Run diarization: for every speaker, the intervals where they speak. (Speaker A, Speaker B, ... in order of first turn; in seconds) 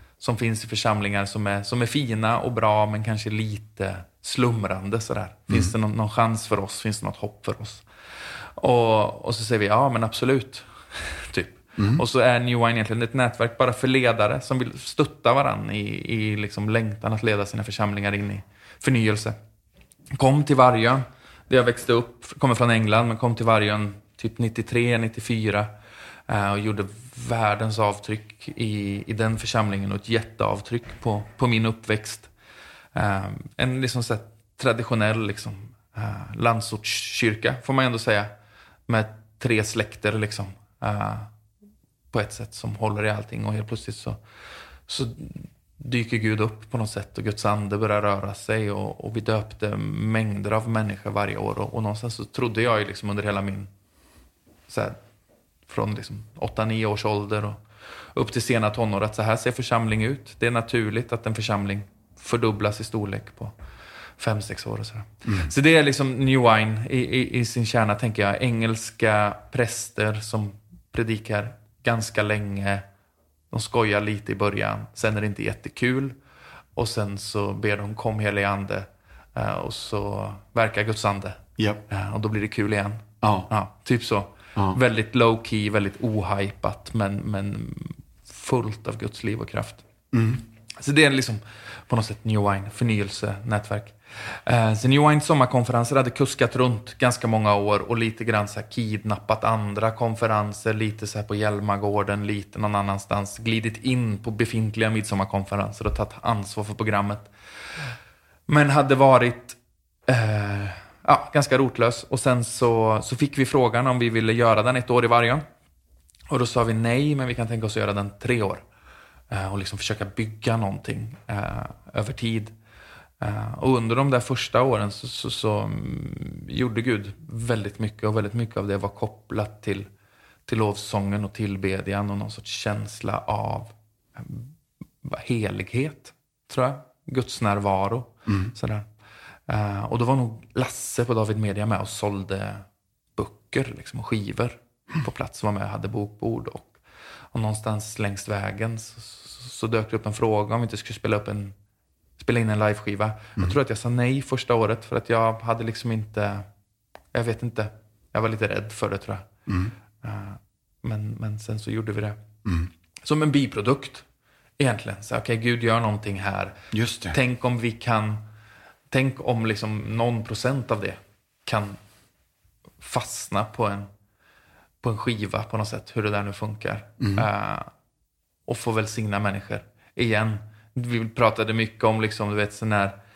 Speaker A: 0.2-7.8, 8.6-19.4, 20.1-25.7, 26.3-32.3, 32.9-38.3, 38.9-41.3, 42.1-44.2, 44.9-53.7, 54.7-55.0, 55.7-57.6, 58.1-63.5, 64.2-72.8, 73.5-76.1, 76.8-89.8, 90.8-107.3, 108.5-115.4, 116.3-118.6, 119.3-122.5, 123.2-129.9, 130.4-134.5, 135.0-138.9, 139.5-142.6, 143.2-146.8, 147.3-151.5, 152.2-156.4, 157.1-159.3, 160.0-162.2, 163.0-164.0, 164.6-166.6, 167.1-168.2, 168.9-171.8, 172.8-173.9, 174.8-177.7, 178.5-182.9
Speaker B: 11.8-12.0, 81.6-81.8, 83.2-83.5, 90.1-90.4, 159.5-159.7, 166.7-167.2, 177.0-177.3